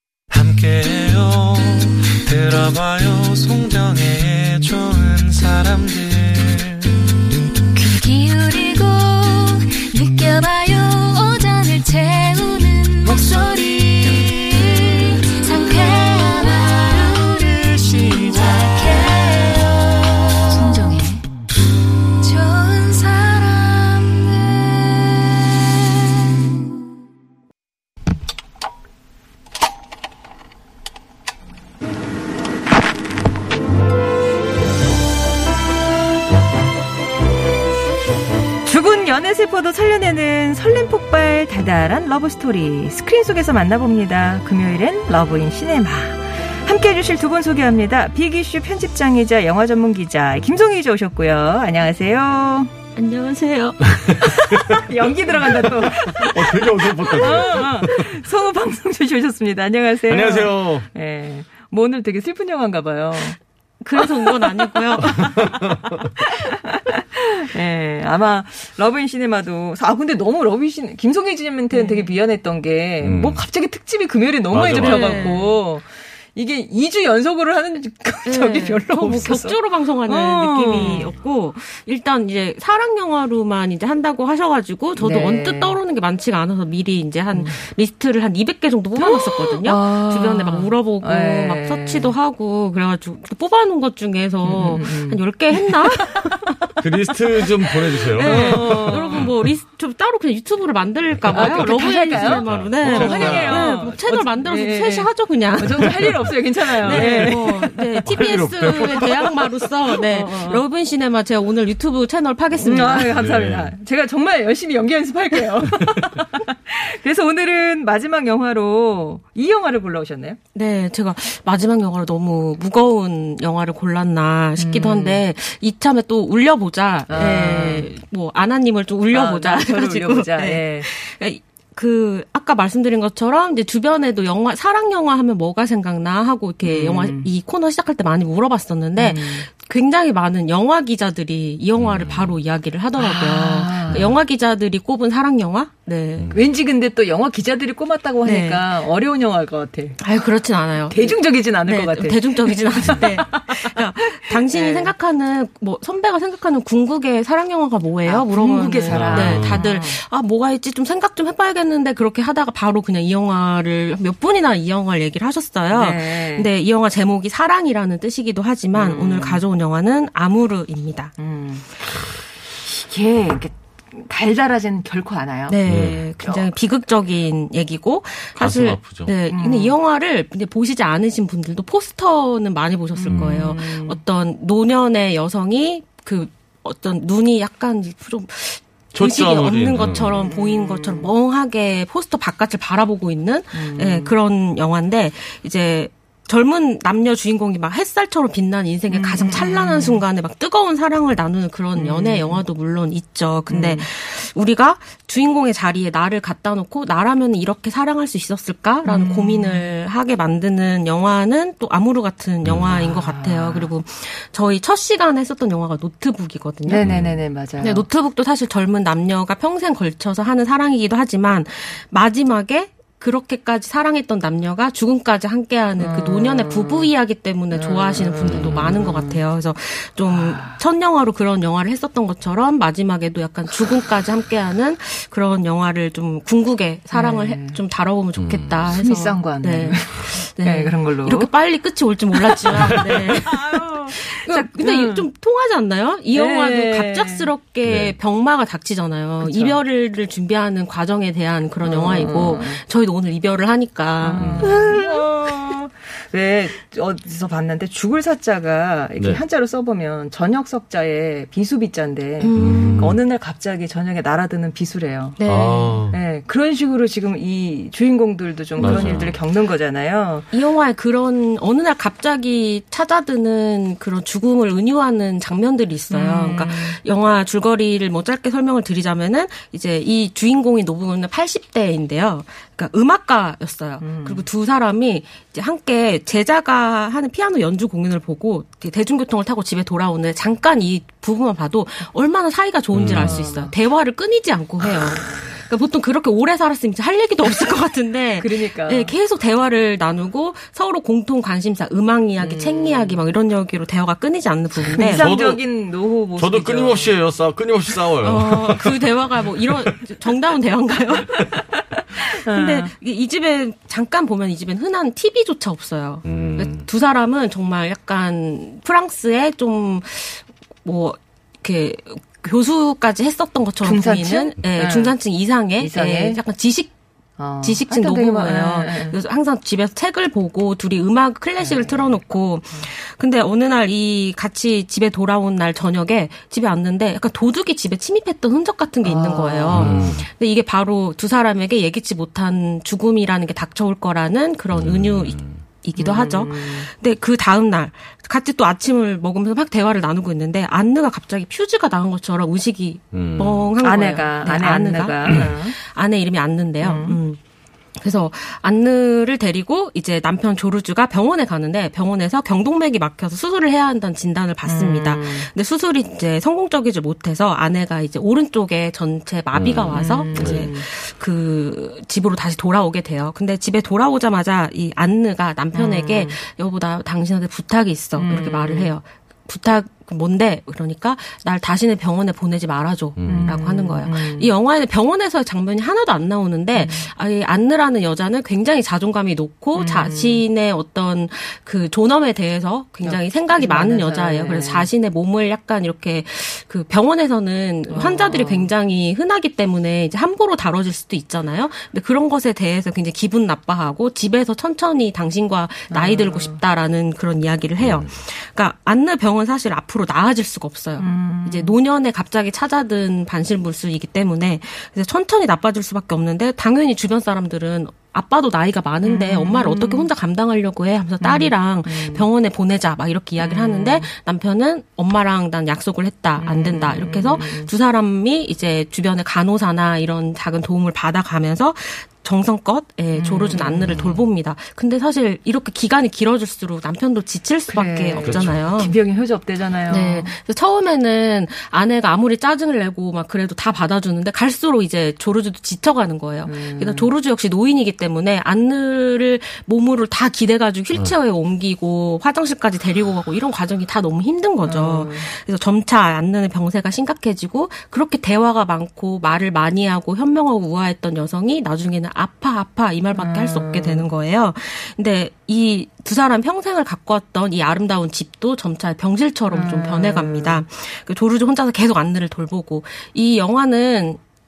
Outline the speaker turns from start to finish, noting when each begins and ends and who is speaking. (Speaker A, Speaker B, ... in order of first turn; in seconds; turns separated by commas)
Speaker A: 0.3-7.0, Speaker B: 7.7-21.2, Speaker A: 17.6-18.3, Speaker B: 22.2-25.3, Speaker C: 38.6-52.7, Speaker D: 52.9-53.9, Speaker E: 53.9-54.8, Speaker C: 54.2-63.4, Speaker E: 55.6-58.2, Speaker E: 60.1-60.9, Speaker D: 63.8-65.4, Speaker C: 64.0-65.5, Speaker E: 65.2-66.1, Speaker C: 66.2-81.1, Speaker D: 71.7-72.1, Speaker E: 73.0-73.4, Speaker E: 74.5-75.3, Speaker D: 74.8-75.6, Speaker D: 78.2-96.5, Speaker C: 85.0-85.8, Speaker C: 89.0-92.1, Speaker C: 94.4-96.5, Speaker E: 96.8-99.3, Speaker C: 98.1-99.3, Speaker D: 98.1-106.2, Speaker C: 101.3-110.6, Speaker E: 102.2-103.8, Speaker E: 105.9-107.4, Speaker D: 106.8-113.1, Speaker E: 108.0-109.3, Speaker C: 112.6-120.4, Speaker E: 113.1-113.7, Speaker E: 115.7-116.2, Speaker D: 120.5-146.3, Speaker C: 124.6-125.2, Speaker C: 127.1-127.9, Speaker C: 129.1-130.9, Speaker C: 136.6-137.3, Speaker C: 138.9-139.5, Speaker E: 141.8-142.3, Speaker C: 143.0-144.1, Speaker E: 143.9-144.1, Speaker E: 146.2-146.4, Speaker C: 146.3-150.0, Speaker D: 148.2-148.8, Speaker D: 150.0-171.1, Speaker C: 150.9-154.9, Speaker C: 158.1-160.0, Speaker E: 158.9-159.6, Speaker C: 165.7-166.5, Speaker C: 168.7-169.4, Speaker C: 171.2-171.8, Speaker C: 172.6-175.6, Speaker D: 175.5-216.9, Speaker E: 175.7-176.0, Speaker E: 178.4-179.1, Speaker C: 179.3-179.7, Speaker C: 182.9-184.0, Speaker E: 183.1-183.4, Speaker E: 188.9-190.2, Speaker C: 190.2-191.1, Speaker C: 193.5-194.1, Speaker C: 198.9-200.0, Speaker C: 201.8-202.4, Speaker C: 203.5-203.8, Speaker C: 208.8-209.7, Speaker E: 212.4-212.8, Speaker C: 212.7-213.7, Speaker C: 216.7-217.8, Speaker E: 216.8-217.2, Speaker D: 217.6-255.5, Speaker C: 225.8-226.9, Speaker C: 227.5-229.2, Speaker E: 228.2-228.7, Speaker C: 230.1-230.6, Speaker C: 236.9-237.6, Speaker E: 238.2-238.7, Speaker C: 238.7-241.3, Speaker C: 242.5-245.1, Speaker C: 246.1-247.3, Speaker E: 247.6-247.9, Speaker C: 249.2-249.6, Speaker C: 251.6-252.6, Speaker C: 254.0-265.2, Speaker E: 254.2-254.5, Speaker D: 262.2-262.9, Speaker E: 262.4-263.0, Speaker D: 265.2-265.8, Speaker E: 265.2-265.9, Speaker C: 265.9-270.3, Speaker E: 268.6-269.1, Speaker D: 268.6-269.1, Speaker D: 270.3-305.1, Speaker C: 275.9-276.8, Speaker C: 283.8-284.2, Speaker E: 292.7-293.2, Speaker C: 293.0-293.5, Speaker C: 298.2-298.9, Speaker C: 302.2-303.0, Speaker C: 304.7-307.0, Speaker E: 304.9-305.4, Speaker E: 306.2-309.7, Speaker D: 308.0-311.3, Speaker C: 311.1-312.7, Speaker D: 312.0-326.7, Speaker E: 316.0-316.6, Speaker C: 323.6-324.9, Speaker C: 325.6-326.2, Speaker C: 327.2-328.9, Speaker D: 327.4-357.2, Speaker C: 331.4-331.9, Speaker C: 338.8-339.9, Speaker E: 339.5-340.1, Speaker E: 344.5-345.4, Speaker C: 345.8-346.7, Speaker E: 352.9-353.5, Speaker C: 353.6-355.6, Speaker C: 356.6-357.0, Speaker D: 357.8-438.8, Speaker C: 364.4-365.3, Speaker E: 369.3-370.5, Speaker C: 369.7-370.6, Speaker C: 375.5-376.1, Speaker C: 377.9-378.7, Speaker E: 383.0-383.4, Speaker C: 383.1-384.3, Speaker C: 386.5-386.9, Speaker C: 389.5-390.2, Speaker C: 392.8-394.7, Speaker C: 397.7-398.5, Speaker C: 405.7-406.4, Speaker E: 407.6-407.9, Speaker C: 410.8-411.6, Speaker C: 418.8-419.9, Speaker C: 421.0-422.1, Speaker C: 423.2-423.9, Speaker C: 426.2-427.5, Speaker C: 432.9-434.0, Speaker E: 433.7-434.0, Speaker C: 437.5-440.1, Speaker E: 438.0-438.4, Speaker D: 439.7-474.0, Speaker C: 446.2-446.9, Speaker C: 454.4-455.1, Speaker C: 463.0-463.8, Speaker C: 469.3-470.4